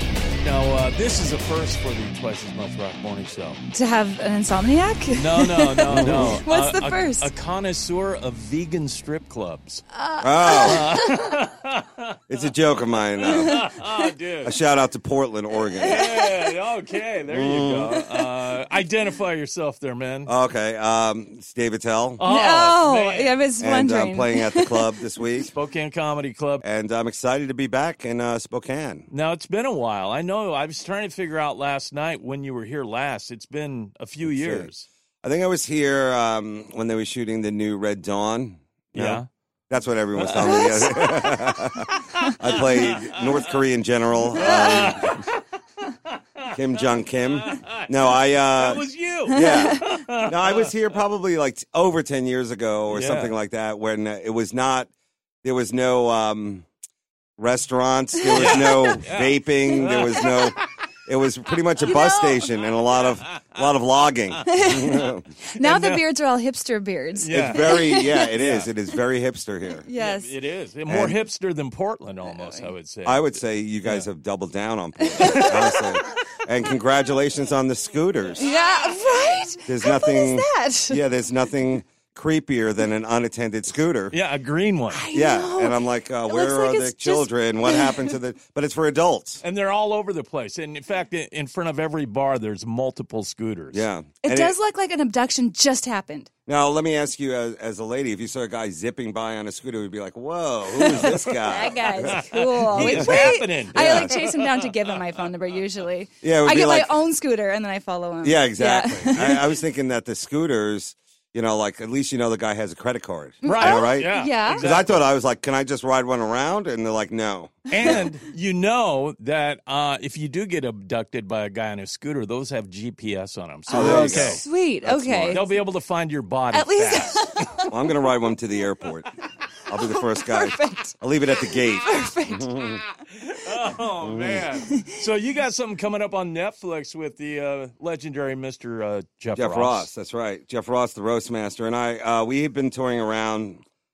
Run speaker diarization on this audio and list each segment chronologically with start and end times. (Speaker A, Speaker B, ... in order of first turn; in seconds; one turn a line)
Speaker A: 0.4-3.6
Speaker B: 3.7-7.3
Speaker A: 5.1-9.8
Speaker C: 5.9-6.4
Speaker B: 9.9-11.1
Speaker C: 10.2-10.9
Speaker A: 10.5-12.2
Speaker C: 12.3-13.7
Speaker A: 13.2-14.6
Speaker B: 13.4-13.7
Speaker C: 14.4-16.2
Speaker A: 15.8-20.3
Speaker B: 15.9-16.2
Speaker C: 17.3-18.0
Speaker C: 20.3-22.2
Speaker A: 22.2-23.4
Speaker B: 22.3-24.9
Speaker C: 23.6-25.5
Speaker A: 25.5-26.6
Speaker C: 26.6-29.1
Speaker A: 29.1-34.9
Speaker C: 34.2-34.7
Speaker C: 35.2-45.2
Speaker A: 39.0-39.3
Speaker A: 40.2-43.3
Speaker B: 40.4-41.4
Speaker A: 44.3-45.4
Speaker B: 44.4-45.0
Speaker A: 46.0-46.5
Speaker C: 46.5-54.9
Speaker A: 47.3-50.7
Speaker B: 49.3-50.0
Speaker A: 52.9-53.4
Speaker C: 55.4-56.7
Speaker C: 57.4-65.3
Speaker A: 58.3-60.7
Speaker B: 58.4-58.9
Speaker B: 60.1-60.5
Speaker B: 61.8-62.6
Speaker A: 63.1-63.5
Speaker B: 64.5-68.3
Speaker A: 65.6-66.0
Speaker A: 67.2-68.7
Speaker C: 67.3-69.9
Speaker B: 69.8-70.3
Speaker A: 70.0-74.1
Speaker C: 70.9-71.2
Speaker B: 72.2-72.7
Speaker C: 73.0-78.5
Speaker B: 75.2-75.5
Speaker A: 75.2-75.8
Speaker B: 78.4-81.0
Speaker C: 79.7-84.2
Speaker A: 84.1-85.1
Speaker B: 84.9-88.2
Speaker C: 85.1-89.4
Speaker A: 89.4-93.9
Speaker C: 93.7-94.6
Speaker B: 94.2-96.3
Speaker C: 96.5-104.2
Speaker B: 100.8-109.6
Speaker A: 102.0-104.7
Speaker C: 106.2-107.0
Speaker C: 108.2-118.0
Speaker B: 113.4-114.7
Speaker A: 113.4-115.0
Speaker A: 117.7-124.4
Speaker C: 123.7-125.4
Speaker B: 123.7-125.6
Speaker A: 125.3-127.6
Speaker B: 126.5-127.7
Speaker C: 127.7-129.1
Speaker C: 129.7-132.8
Speaker B: 129.8-132.7
Speaker A: 133.1-139.9
Speaker C: 134.0-134.5
Speaker C: 139.3-143.6